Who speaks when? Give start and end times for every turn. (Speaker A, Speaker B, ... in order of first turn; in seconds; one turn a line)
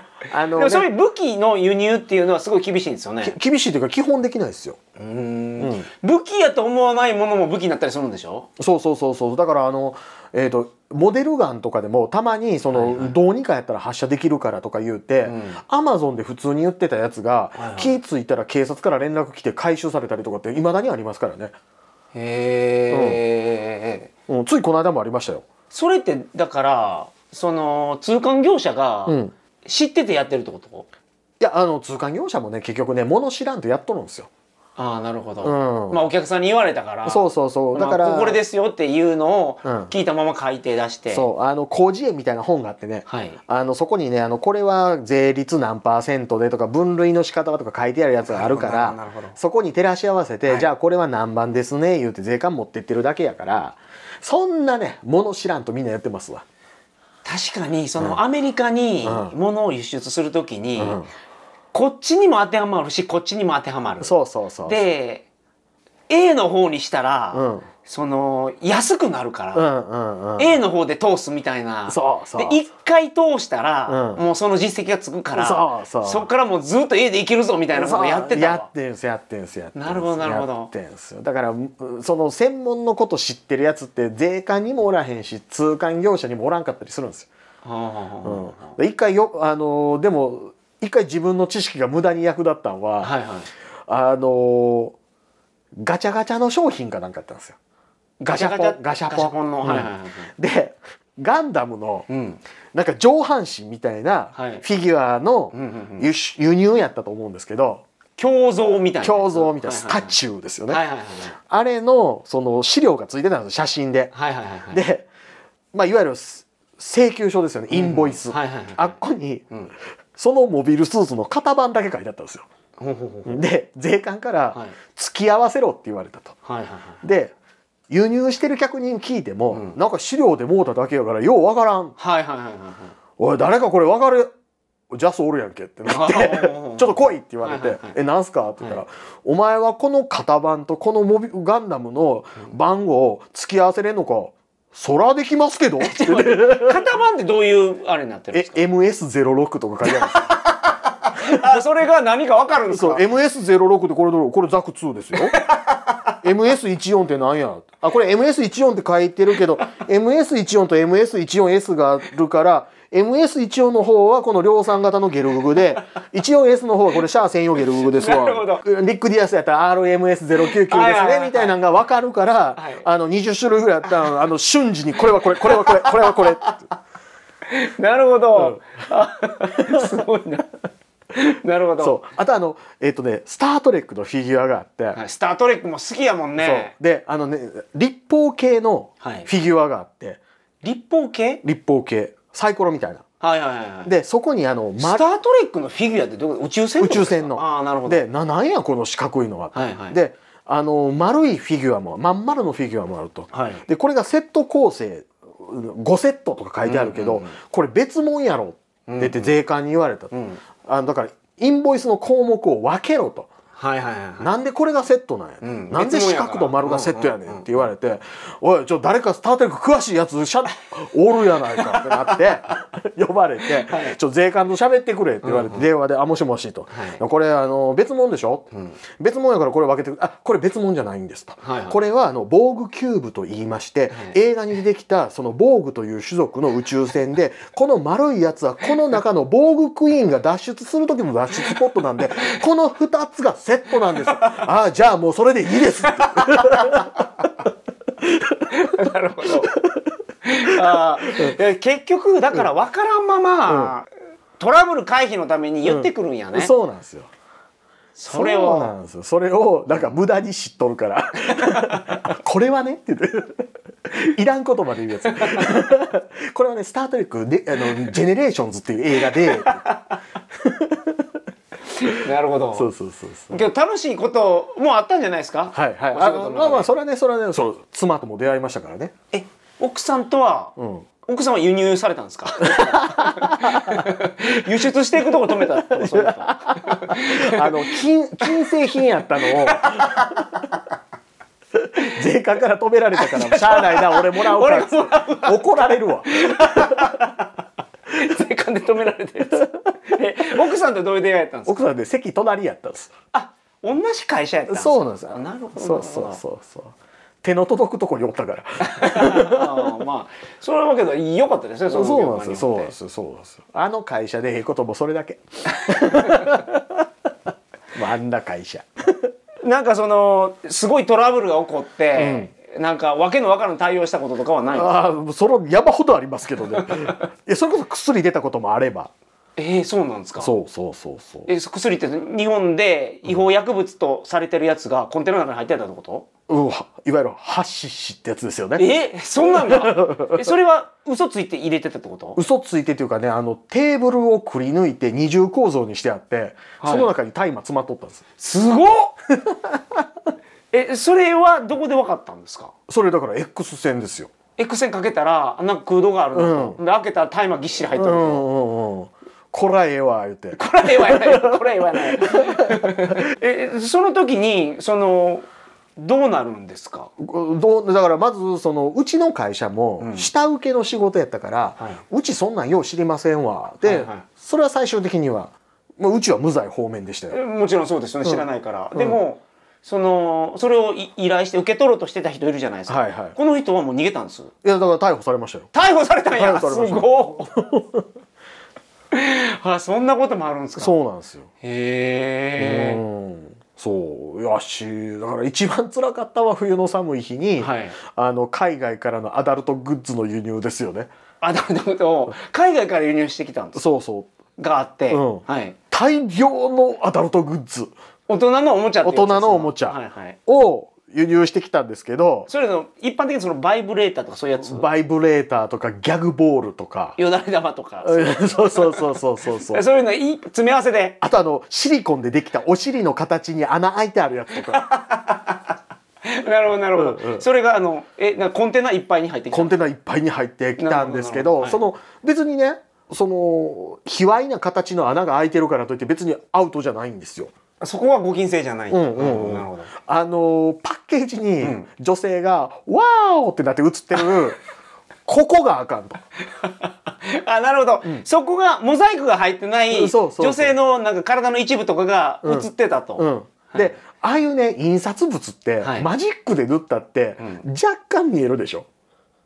Speaker A: 0.3-0.9
Speaker B: 0.6-3.4
Speaker A: 3.2-4.8
Speaker B: 5.0-8.5
Speaker A: 5.6-5.9
Speaker A: 8.6-21.6
Speaker B: 12.7-13.2
Speaker B: 15.2-15.6
Speaker B: 17.6-18.0
Speaker B: 22.1-24.1
Speaker A: 22.9-23.2
Speaker A: 24.3-25.5
Speaker B: 25.7-30.9
Speaker A: 29.1-29.3
Speaker A: 31.4-34.3
Speaker B: 34.8-41.3
Speaker A: 35.4-36.0
Speaker A: 37.1-38.4
Speaker A: 39.6-39.9
Speaker A: 41.1-56.4
Speaker B: 43.1-43.4
Speaker B: 48.2-49.4
Speaker B: 57.2-61.0
Speaker A: 59.0-59.4
Speaker A: 60.8-61.1
Speaker B: 61.7-65.2
Speaker A: 64.0-64.8
Speaker B: 66.1-69.7
Speaker A: 67.3-67.7
Speaker A: 69.5-70.6
Speaker B: 70.4-78.7
Speaker A: 71.9-72.6
Speaker A: 73.9-74.2
Speaker A: 75.3-76.3
Speaker A: 77.7-87.3
Speaker B: 79.8-80.7
Speaker B: 87.6-88.8
Speaker A: 88.2-93.1
Speaker B: 93.0-93.5
Speaker A: 93.9-95.0
Speaker A: 95.8-97.6
Speaker B: 98.2-100.3
Speaker A: 98.2-102.1
Speaker B: 102.1-102.4
Speaker A: 102.7-107.8
Speaker B: 104.3-104.7
Speaker B: 105.5-106.1
Speaker B: 108.2-110.2
Speaker A: 109.0-110.8
Speaker B: 110.7-111.4
Speaker A: 111.5-114.1
Speaker B: 114.1-114.8
Speaker A: 114.7-115.1
Speaker A: 115.7-119.5
Speaker B: 117.7-119.0
Speaker A: 120.2-122.5
Speaker B: 122.8-123.4
Speaker A: 123.2-126.3
Speaker B: 126.5-127.0
Speaker A: 127.0-127.3
Speaker A: 127.9-131.9
Speaker B: 129.5-129.8
Speaker B: 132.0-132.9
Speaker A: 133.2-134.3
Speaker A: 134.9-146.8
Speaker B: 135.9-138.0
Speaker B: 145.8-148.6
Speaker A: 148.3-150.3
Speaker B: 149.8-153.0
Speaker A: 151.2-151.6
Speaker A: 152.7-155.4
Speaker B: 155.3-156.1
Speaker A: 156.2-176.7
Speaker B: 167.8-168.6
Speaker B: 170.5-171.6
Speaker B: 172.6-172.8
Speaker B: 175.4-176.5
Speaker B: 177.5-180.5
Speaker A: 179.6-180.0
Speaker B: 181.1-182.0
Speaker A: 181.8-185.0
Speaker B: 184.9-186.7
Speaker A: 186.4-190.2
Speaker B: 189.0-189.3
Speaker B: 190.6-191.4
Speaker A: 191.4-193.0
Speaker B: 193.2-193.9
Speaker A: 193.9-195.1
Speaker B: 194.8-198.1
Speaker A: 196.8-210.1
Speaker B: 199.5-200.0
Speaker B: 203.3-203.6
Speaker B: 206.6-207.4
Speaker B: 208.9-209.4
Speaker B: 210.1-210.4
Speaker A: 210.7-213.3
Speaker B: 213.6-214.3
Speaker A: 214.2-228.5
Speaker B: 215.4-217.5
Speaker B: 221.6-222.5
Speaker B: 223.6-224.0
Speaker B: 225.2-225.7
Speaker B: 226.7-227.0
Speaker A: 229.0-247.1
Speaker B: 231.4-231.8
Speaker B: 244.0-244.4
Speaker B: 245.8-247.1
Speaker A: 248.0-248.6
Speaker B: 248.5-249.6
Speaker A: 249.2-251.3
Speaker B: 250.2-253.9
Speaker A: 253.5-253.7
Speaker B: 254.4-256.5
Speaker A: 255.7-257.1
Speaker B: 258.0-258.7
Speaker A: 258.1-269.6
Speaker B: 261.4-261.9
Speaker B: 265.1-265.5
Speaker B: 269.1-269.9
Speaker A: 270.4-271.1
Speaker B: 271.7-272.7
Speaker A: 272.5-273.5
Speaker B: 273.3-276.7
Speaker A: 275.5-278.9
Speaker B: 279.1-288.5
Speaker A: 280.6-280.9
Speaker A: 282.4-284.4
Speaker A: 285.4-290.4
Speaker B: 289.2-290.3
Speaker A: 291.6-297.0
Speaker B: 292.9-297.3
Speaker B: 297.9-301.6
Speaker A: 301.5-302.9
Speaker B: 303.1-306.2
Speaker A: 304.5-309.7
Speaker B: 308.6-312.7
Speaker A: 311.7-316.9
Speaker B: 315.7-316.2
Speaker A: 317.8-319.1
Speaker B: 319.4-324.8
Speaker A: 321.9-322.3
Speaker A: 324.5-328.9
Speaker B: 326.6-327.0
Speaker B: 329.4-330.3
Speaker A: 330.2-331.3
Speaker B: 331.3-336.1
Speaker A: 336.3-338.7
Speaker B: 338.6-342.2
Speaker A: 339.2-340.3
Speaker A: 342.1-348.1
Speaker B: 346.6-346.9
Speaker B: 348.2-348.9
Speaker A: 349.1-349.9
Speaker B: 350.5-352.5
Speaker A: 352.7-354.1
Speaker B: 354.4-358.2
Speaker A: 356.1-356.6
Speaker A: 357.8-363.0
Speaker B: 360.4-366.9
Speaker A: 367.0-377.2
Speaker B: 369.8-370.1
Speaker B: 373.6-374.1
Speaker B: 377.1-384.3
Speaker A: 378.8-379.0
Speaker A: 382.7-383.1
Speaker A: 384.4-385.5
Speaker B: 385.5-387.3
Speaker A: 386.1-387.8
Speaker B: 388.9-390.7
Speaker A: 390.6-391.3
Speaker B: 391.4-392.8
Speaker A: 392.4-400.9
Speaker B: 397.4-397.8
Speaker B: 401.2-403.6
Speaker A: 403.6-404.1
Speaker B: 404.4-405.6
Speaker A: 404.9-407.7
Speaker B: 408.1-410.2
Speaker A: 408.8-412.3
Speaker B: 412.3-414.6
Speaker A: 414.4-417.0
Speaker B: 417.0-421.0
Speaker A: 417.8-419.6
Speaker A: 421.0-424.6
Speaker B: 424.5-425.4
Speaker B: 426.0-429.6
Speaker A: 426.8-427.3
Speaker A: 429.3-437.3
Speaker B: 430.6-431.6
Speaker B: 437.6-439.7
Speaker A: 438.7-444.4
Speaker B: 441.4-441.7
Speaker A: 445.1-446.0
Speaker B: 446.4-453.8
Speaker A: 449.7-450.6
Speaker A: 452.2-458.7
Speaker B: 455.6-455.9
Speaker B: 457.2-457.4